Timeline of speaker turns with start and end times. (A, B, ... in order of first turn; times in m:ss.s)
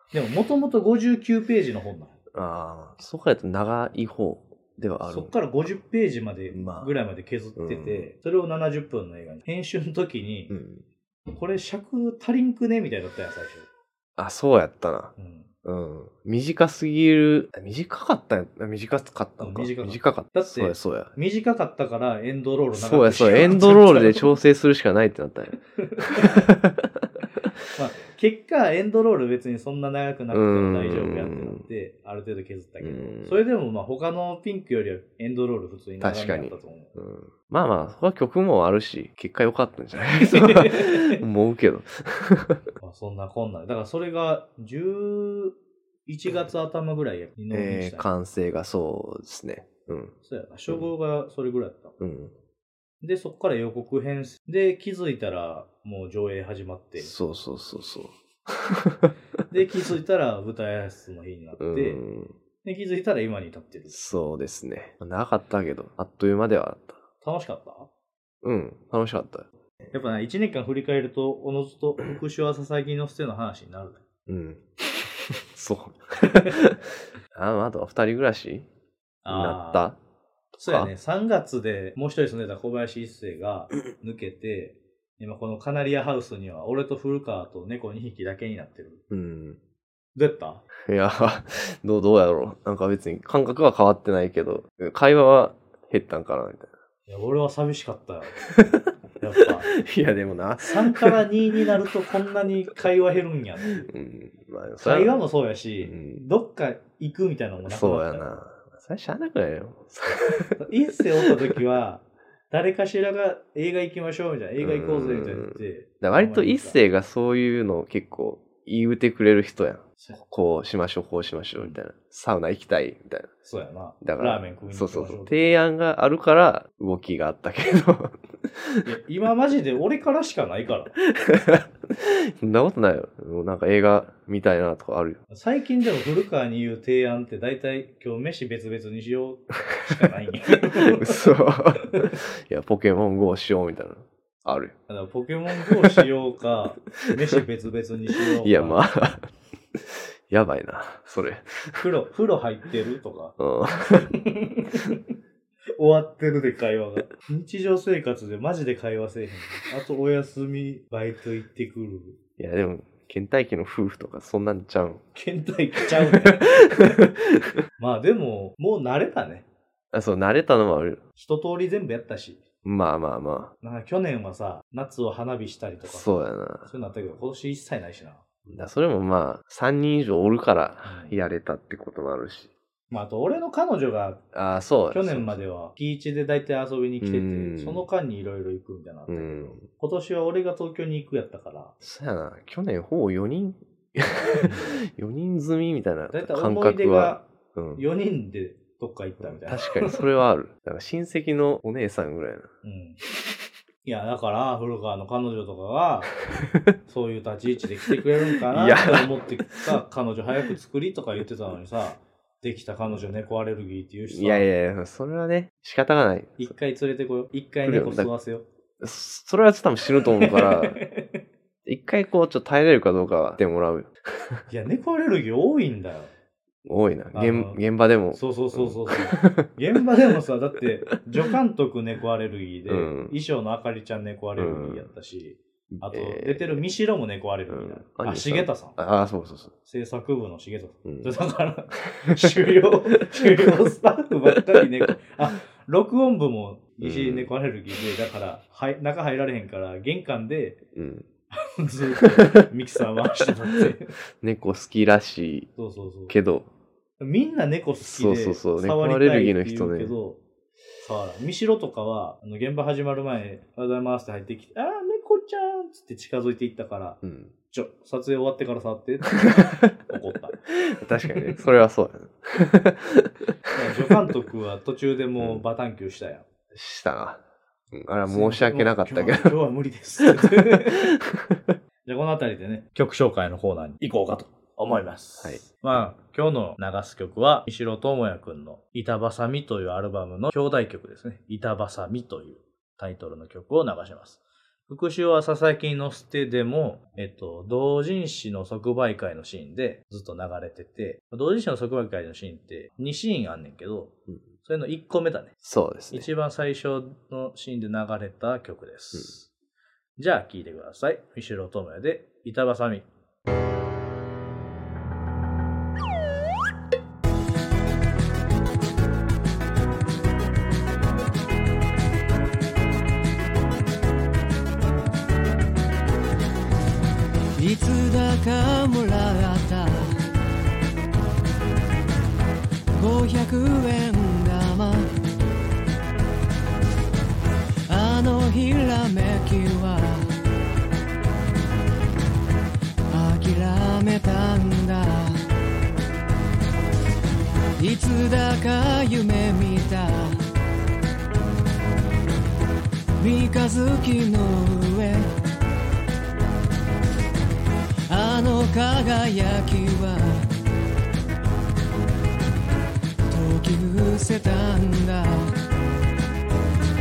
0:00.1-0:02.2 A
0:02.3-0:05.3 B
0:05.1-0:10.5 A
0:06.5-0:06.9 B
0:07.6-0:08.1 B
0:10.5-0:10.8 B
0:11.3-0:13.7 A
0:14.2-0:15.1 B
0:15.2-0:15.5 A
0:15.6-0:21.1 B
0:19.4-0:24.3 A
0:22.7-0:27.5 B
0:25.8-0:26.4 A
0:27.7-0:37.0 A
0:30.3-0:31.6 B
0:32.8-0:33.4 B
0:36.0-0:42.6 B
0:40.1-0:41.2 A
0:42.8-0:48.1 A
0:47.5-0:50.2 B
0:50.2-0:52.0 A
0:52.0-0:52.3 B
0:53.0-0:57.1 A
0:57.0-0:59.1 B
0:59.5-1:02.0 A
1:01.6-1:02.4 B
1:02.6-1:04.0 A
1:03.9-1:07.0 B
1:07.2-1:07.9 A
1:08.4-1:09.5 B
1:09.9-1:14.0 A
1:14.3-1:18.7 B
1:19.2-1:19.9 A
1:19.3-1:20.0 B
1:20.6-1:20.9 B
1:20.6-1:29.0 A
1:29.1-1:29.6 B
1:30.2-1:30.6 A
1:30.8-1:36.7 B
1:37.1-1:38.4 A
1:38.5-1:38.8 B
1:39.2-1:39.7 A
1:39.4-1:41.2 B
1:40.6-1:43.9 A
1:43.8-1:45.2 B
1:44.8-1:48.3 A
1:45.8-1:46.2 B
1:47.6-1:50.6 B
1:50.6-1:56.8 A
1:54.6-2:03.3 B
2:03.4-2:05.5 A
2:04.0-2:08.8 B
2:08.8-2:11.0 A
2:11.1-2:15.2 B
2:15.3-2:21.2 A
2:20.8-2:24.8 B
2:24.9-2:28.8 A
2:28.4-2:31.8 B
2:31.8-2:33.4 A
2:33.4-2:34.1 B
2:34.0-2:35.0 A
2:35.8-2:42.2 A
2:42.4-2:45.0 B
2:45.2-2:47.0 A
2:46.1-2:47.6 B
2:47.8-2:49.5 A
2:49.9-2:51.0 B
2:51.2-2:52.4 A
2:52.6-2:53.5 B
2:53.6-2:58.2 A
2:55.8-2:56.7 B
2:58.5-3:02.5 B
3:00.8-3:01.2 A
3:02.9-3:04.2 A
3:04.3-3:05.4 B
3:04.9-3:11.8 A
3:07.0-3:07.9 B
3:09.1-3:09.6 B
3:11.8-3:17.8 B
3:14.4-3:14.8 A
3:16.1-3:20.0 A
3:19.3-3:22.5 B
3:22.6-3:23.0 A
3:23.8-3:26.2 A
3:26.4-3:26.7 B
3:26.9-3:34.5 A
3:28.5-3:29.2 B
3:34.1-3:36.5 B
3:36.4-3:38.5 A
3:37.7-3:38.1 B
3:38.8-3:40.8 B
3:40.2-3:41.1 A
3:41.6-3:44.4 B
3:44.5-3:46.1 A
3:46.6-3:49.5 B
3:47.1-3:47.6 A
3:48.1-3:58.8 A
3:52.7-3:53.1 B
3:54.4-3:54.9 B
3:55.7-3:56.6 B
3:57.5-3:59.5 B
3:59.6-4:10.6 A
4:00.8-4:01.1 B
4:02.0-4:02.3 B
4:03.1-4:03.5 B
4:06.8-4:07.3 B
4:10.8-4:11.1 B
4:11.4-4:14.0 A
4:12.0-4:12.5 B
4:14.2-4:15.5 B
4:15.6-4:16.2 A
4:16.1-4:16.5 B
4:17.0-4:20.2 A
4:17.8-4:20.0 B
4:20.8-4:30.4 A
4:27.0-4:27.3 B
4:29.2-4:29.6 B
4:30.6-4:33.8 B
4:33.5-4:36.3 A
4:35.2-4:35.4 B
4:36.5-4:39.4 B
4:38.1-4:41.0 A
4:40.2-4:41.6 B
4:41.8-5:05.4 A
5:05.4-5:06.1 B
5:05.9-5:09.3 A
5:10.0-5:12.9 A
5:27.4-5:30.0 C
5:32.8-5:34.9 C
5:37.7-5:40.1 C
5:42.9-5:45.2 C
5:47.6-5:50.2 C
5:53.0-5:55.1 C
5:57.9-6:00.3 C
6:03.1-6:05.4 C